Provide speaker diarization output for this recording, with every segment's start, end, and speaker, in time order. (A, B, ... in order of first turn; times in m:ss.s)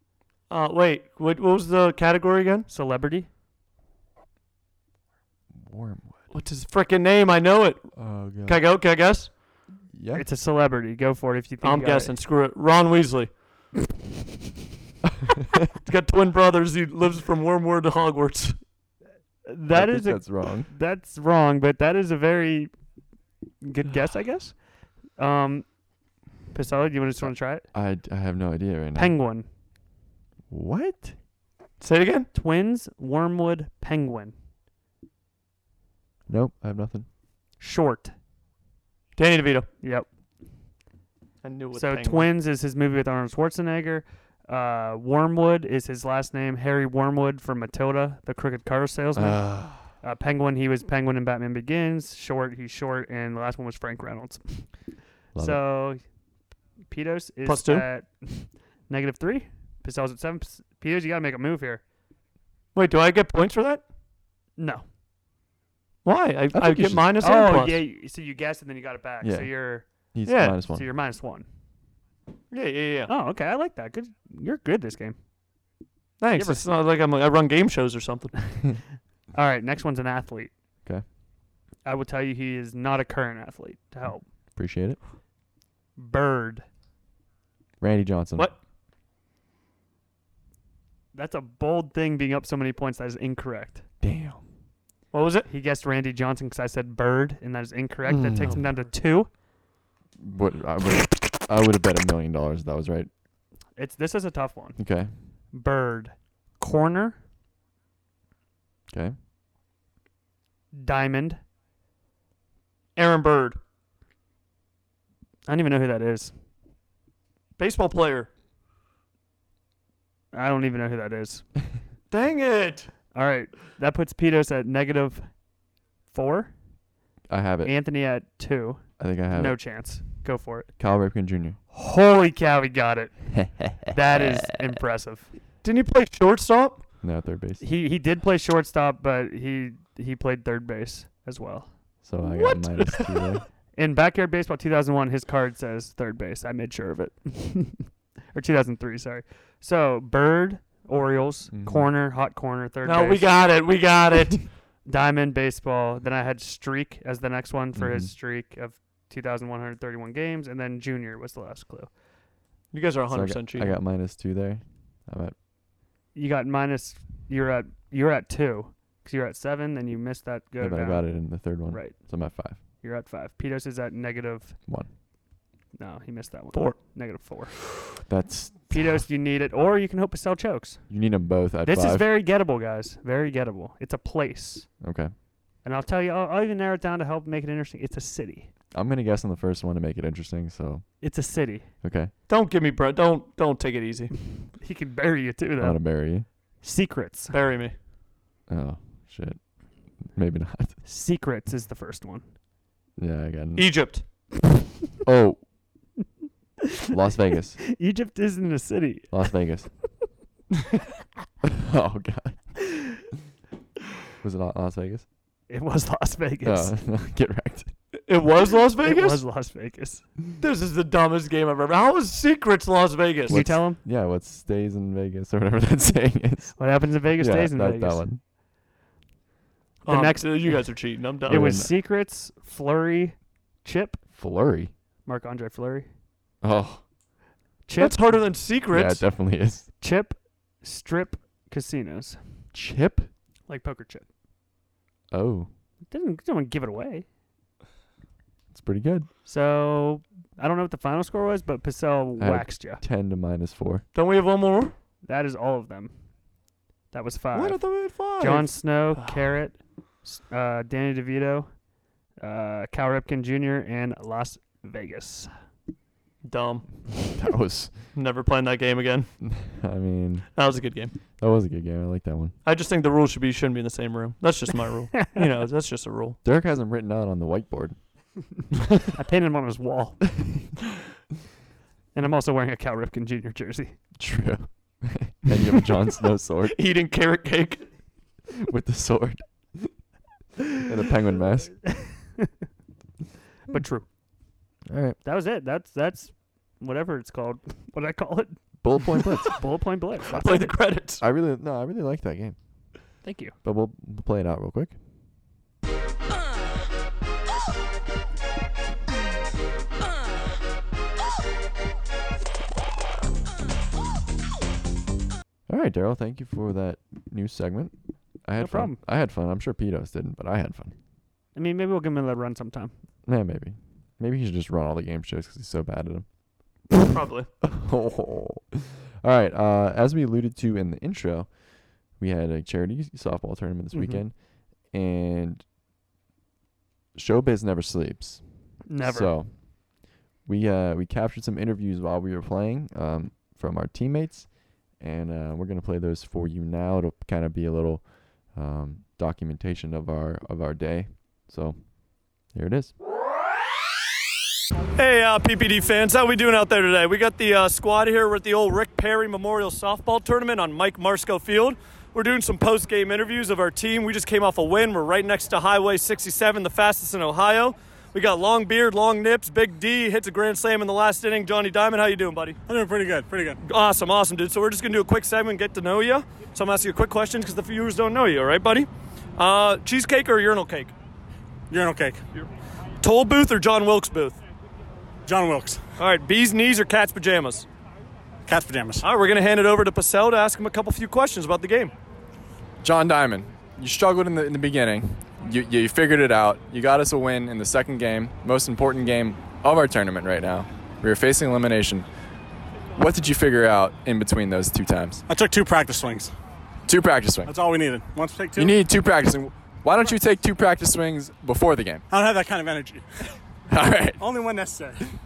0:00.5-0:02.7 A
0:02.7-0:03.3 B
0:05.5-0:06.2 C
0:06.3-0:09.3 A
0:08.0-0:08.6 C
0:09.9-0:10.2 C
0:10.1-0:12.1 B
0:11.6-0:13.3 A
0:15.8-0:18.6 A
0:19.4-0:22.7 B
0:19.7-0:20.7 C
0:23.6-0:24.6 B
0:25.2-0:25.7 B
0:26.5-0:27.6 B
0:27.2-0:29.1 C
0:28.9-0:29.5 B
0:30.5-0:31.2 C
0:31.8-0:32.3 A
0:32.3-0:34.3 B
0:36.3-0:37.1 C
0:37.6-0:38.1 B
0:39.2-0:39.7 A
0:39.8-0:40.1 B
0:41.4-0:42.3 A
0:41.7-0:54.8 B
0:49.1-0:49.9 C
0:55.3-0:55.6 C
0:55.4-0:56.0 B
0:56.9-1:01.8 B
0:57.4-0:57.8 A
1:02.7-1:03.8 A
1:04.6-1:04.8 B
1:06.0-1:07.8 A
1:06.5-1:07.1 C
1:07.2-1:09.8 B
1:09.2-1:09.5 C
1:10.1-1:10.9 C
1:10.2-1:10.6 A
1:10.7-1:11.5 B
1:12.5-1:13.1 A
1:13.1-1:15.2 B
1:16.2-1:18.3 A
1:16.3-1:16.6 B
1:19.3-1:20.5 B
1:21.8-1:24.2 B
1:24.5-1:25.0 C
1:26.0-1:26.6 B
1:27.8-1:28.5 C
1:31.1-1:33.8 B
1:34.0-1:34.4 C
1:35.1-1:35.5 A
1:35.5-1:39.3 B
1:38.1-1:38.6 A
1:40.2-1:43.1 C
1:43.8-1:44.8 B
1:44.8-1:45.1 C
1:45.5-1:47.2 B
1:50.7-1:51.4 B
1:53.0-1:53.6 A
1:55.4-1:56.3 B
1:57.6-1:58.3 A
2:00.3-2:01.4 B
2:02.1-2:02.9 A
2:03.1-2:05.3 B
2:06.1-2:06.5 B
2:07.3-2:07.7 C
2:07.6-2:10.7 B
2:09.0-2:09.6 C
2:10.8-2:11.6 C
2:11.7-2:15.3 B
2:15.6-2:16.8 A
2:17.0-2:17.6 C
2:17.6-2:21.7 B
2:22.0-2:23.4 C
2:22.2-2:23.4 A
2:23.8-2:33.3 B
2:31.5-2:31.9 C
2:32.8-2:34.5 A
2:34.8-2:41.9 B
2:37.7-2:38.1 C
2:42.7-2:43.7 A
2:43.1-2:45.3 C
2:46.1-2:52.0 B
2:50.6-2:52.6 C
2:52.8-2:54.6 B
2:55.7-2:57.5 B
2:58.0-2:59.0 C
2:58.7-3:00.8 B
3:00.9-3:02.1 C
3:01.6-3:04.7 B
3:04.8-3:05.1 C
3:05.6-3:08.5 B
3:08.7-3:10.8 C
3:11.0-3:11.7 B
3:11.8-3:12.1 C
3:12.3-3:14.1 A
3:14.6-3:15.8 B
3:15.6-3:16.3 C
3:16.6-3:17.4 B
3:17.3-3:17.7 A
3:18.5-3:19.4 C
3:20.0-3:20.8 C
3:20.8-3:22.3 B
3:23.0-3:23.8 C
3:23.6-3:24.0 A
3:25.0-3:25.4 C
3:26.9-3:27.6 C
3:27.6-3:29.1 B
3:29.1-3:29.7 C
3:31.4-3:32.5 C
3:34.2-3:35.0 C
3:35.5-3:36.8 B
3:36.4-3:37.7 C
3:38.0-3:39.2 A
3:38.8-3:40.0 B
3:40.4-3:43.4 A
3:43.3-3:43.8 B
3:43.3-3:48.2 C
3:46.6-3:48.1 B
3:49.8-3:54.0 B
3:49.8-3:51.6 A
3:51.2-3:51.7 C
3:54.1-3:54.7 C
3:55.0-3:55.9 B
3:56.4-3:56.8 C
3:57.6-3:58.2 B
3:57.8-3:59.0 A
3:58.7-3:59.7 C
3:59.8-4:02.2 B
4:02.5-4:03.1 C
4:03.5-4:04.0 B
4:05.1-4:05.5 C
4:05.9-4:07.0 B
4:08.5-4:09.1 C
4:09.2-4:12.8 B
4:12.2-4:13.8 C
4:13.9-4:14.7 A
4:15.0-4:15.9 B
4:16.9-4:17.6 B
4:17.3-4:19.3 A
4:18.2-4:21.5 B
4:22.2-4:25.3 B
4:26.2-4:26.7 A
4:27.0-4:27.7 C
4:27.9-4:29.1 A
4:29.2-4:30.4 C
4:30.3-4:30.9 A
4:31.2-4:32.4 C
4:32.4-4:36.2 A
4:36.2-4:37.8 C
4:38.9-4:40.0 B
4:41.9-4:43.8 B
4:44.0-4:46.6 C
4:46.5-4:47.6 A
4:48.4-4:49.7 C
4:50.6-4:51.6 C
4:51.8-4:52.3 B
4:53.5-4:53.8 B
4:54.7-4:55.0 C
4:55.0-5:00.5 B
4:58.6-4:59.4 C
5:00.1-5:01.0 A
5:01.0-5:02.4 C
5:03.0-5:03.3 B
5:03.4-5:04.7 C
5:15.5-5:20.7 C
5:18.4-5:18.8 B
5:21.3-5:22.7 B
5:23.0-5:26.0 C
5:26.8-5:27.3 A
5:27.4-5:31.4 C
5:31.9-5:34.2 C
5:33.7-5:34.0 B
5:34.7-5:35.4 C
5:36.9-5:38.2 C
5:38.6-5:39.1 B
5:38.8-5:39.3 C
5:40.2-5:51.6 C
5:52.3-5:52.7 C
5:54.8-6:12.4 A
6:12.5-6:13.4 D
6:13.4-6:20.7 A
6:21.5-6:22.0 D
6:22.8-6:24.2 A
6:25.0-6:25.6 D
6:25.8-6:27.5 A
6:28.3-6:28.8 D
6:28.8-6:31.7 A
6:32.6-6:41.8 E
6:42.8-6:45.0 E
6:45.1-6:46.1 D
6:46.7-6:47.3 E
6:47.3-6:48.6 D
6:48.4-6:51.8 E
6:51.9-6:52.8 D
6:53.5-6:54.0 E
6:54.0-6:54.8 D